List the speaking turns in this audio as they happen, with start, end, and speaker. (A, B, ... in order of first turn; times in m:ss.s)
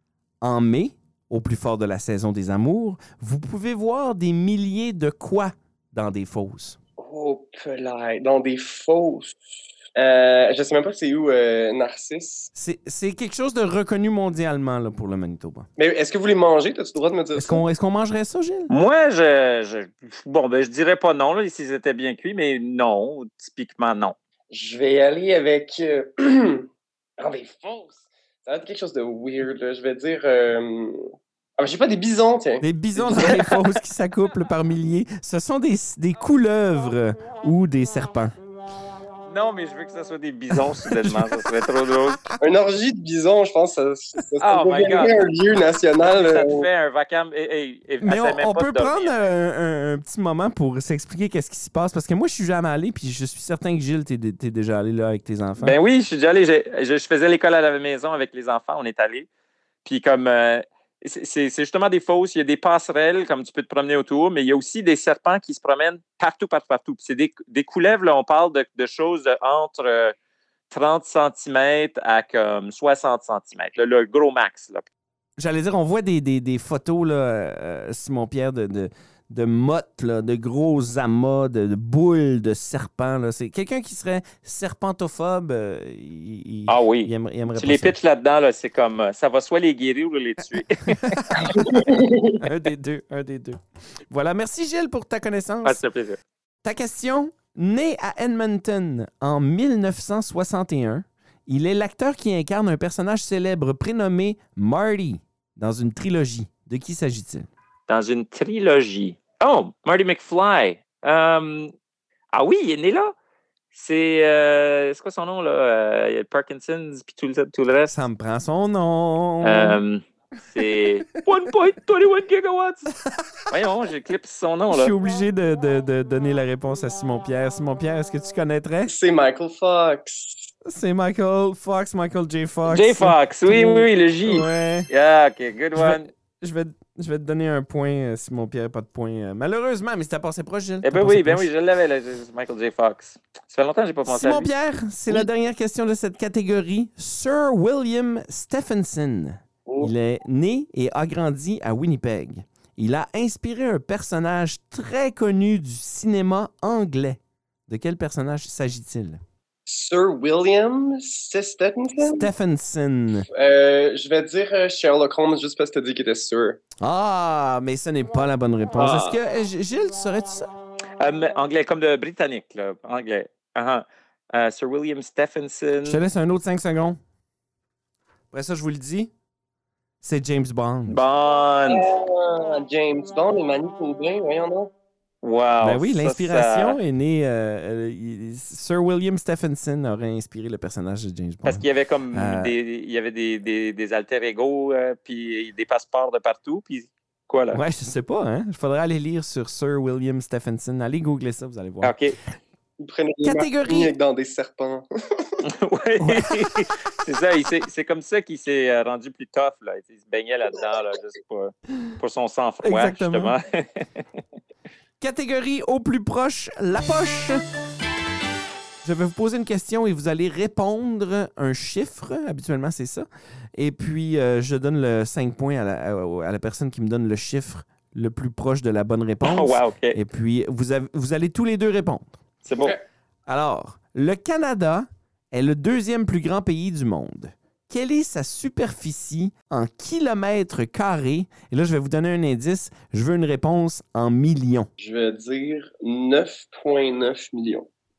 0:00.4-0:06.8 A
0:07.0-0:09.4 B
0:10.0-0:12.5 B
0:12.6-0:15.7 A
0:15.8-0:17.6 B
0:17.4-0:18.7 A
0:18.7-0:24.2 C
0:24.5-0:33.4 B
0:32.6-0:38.4 A
0:39.3-0:42.2 C
0:40.5-0:41.6 A
0:42.4-0:46.7 B
0:44.4-0:45.2 C
0:46.1-0:49.1 C
0:48.0-0:55.8 A
0:55.6-0:59.3 C
0:59.8-1:10.2 C
1:10.7-1:14.8 C
1:15.4-1:28.0 A
1:26.7-1:31.5 C
1:31.0-1:35.8 A
1:31.5-1:32.4 B
1:35.6-1:36.2 C
1:36.6-1:47.5 A
1:47.9-1:51.7 C
1:52.3-1:53.2 C
1:53.7-1:58.0 C
1:57.9-1:59.8 A
1:59.4-2:02.9 C
2:03.5-2:04.9 C
2:04.7-2:08.9 A
2:08.9-2:10.5 B
2:10.6-2:14.9 A
2:12.7-2:16.1 C
2:15.8-2:21.5 A
2:20.8-2:24.5 C
2:24.1-2:39.2 A
2:29.7-2:29.9 B
2:39.7-2:42.3 B
2:42.0-2:43.3 A
2:43.3-2:46.6 B
2:46.8-2:50.5 A
2:48.8-2:49.2 B
2:51.0-2:56.0 C
2:55.8-2:57.0 A
2:58.3-2:59.1 A
3:00.0-3:01.0 A
3:00.9-3:01.9 C
3:01.7-3:04.7 B
3:05.2-3:06.8 C
3:05.6-3:12.5 A
3:11.4-3:17.6 C
3:17.5-3:22.0 A
3:21.8-3:22.2 C
3:22.8-3:25.4 B
3:23.2-3:23.9 A
3:25.4-3:34.0 C
3:26.0-3:26.6 A
3:32.6-3:33.4 A
3:35.0-3:37.4 A
3:38.8-3:52.2 A
3:49.2-3:50.0 C
3:52.4-3:52.8 C
3:53.3-4:04.7 A
4:04.8-4:07.7 B